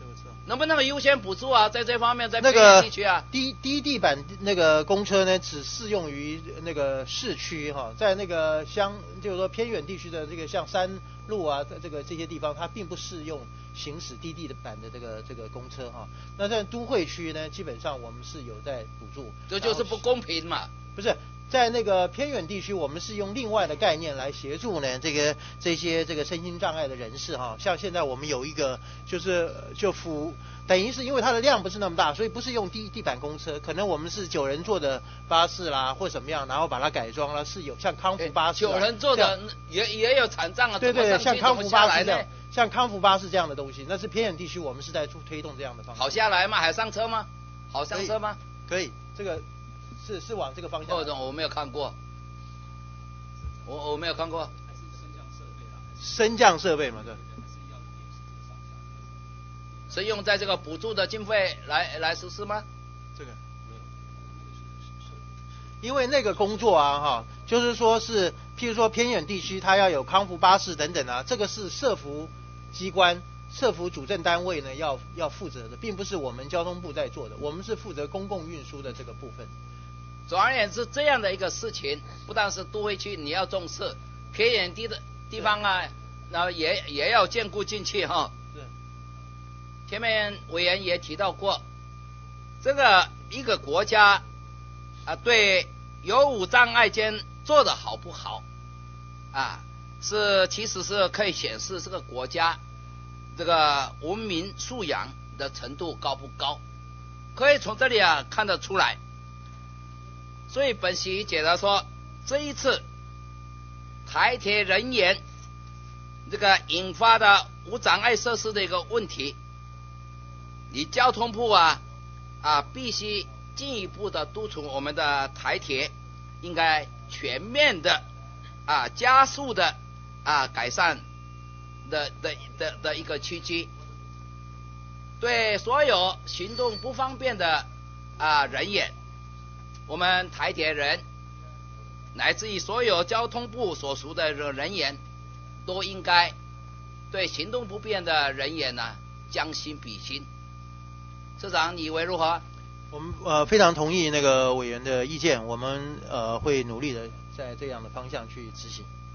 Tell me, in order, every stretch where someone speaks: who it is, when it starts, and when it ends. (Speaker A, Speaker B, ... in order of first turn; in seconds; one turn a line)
Speaker A: 0.4-3.2
Speaker B: 2.4-20.0
Speaker A: 19.5-20.7
Speaker B: 20.9-39.3
Speaker A: 38.2-42.3
Speaker B: 40.8-46.1
Speaker A: 45.9-48.4
Speaker B: 48.7-49.4
Speaker B: 50.0-51.1
Speaker A: 50.9-52.0
Speaker A: 53.6-54.5
Speaker B: 56.0-57.2
Speaker A: 59.9-62.6
Speaker B: 65.8-79.5
Speaker A: 80.3-88.3
Speaker A: 89.9-91.6
Speaker A: 92.6-94.2
Speaker A: 95.0-98.4
Speaker A: 99.3-102.6
Speaker A: 103.3-106.6
Speaker A: 107.3-109.0
Speaker A: 110.5-112.8
Speaker A: 114.0-115.2
Speaker A: 116.2-119.4
Speaker A: 120.7-121.8
Speaker A: 122.4-128.0
Speaker A: 128.7-131.0
Speaker A: 131.8-133.7
Speaker A: 135.2-137.7
Speaker A: 138.2-138.9
Speaker A: 139.9-141.0
Speaker A: 142.1-145.0
Speaker A: 145.6-146.3
Speaker A: 147.1-150.3
Speaker A: 151.4-152.4
Speaker B: 152.9-158.9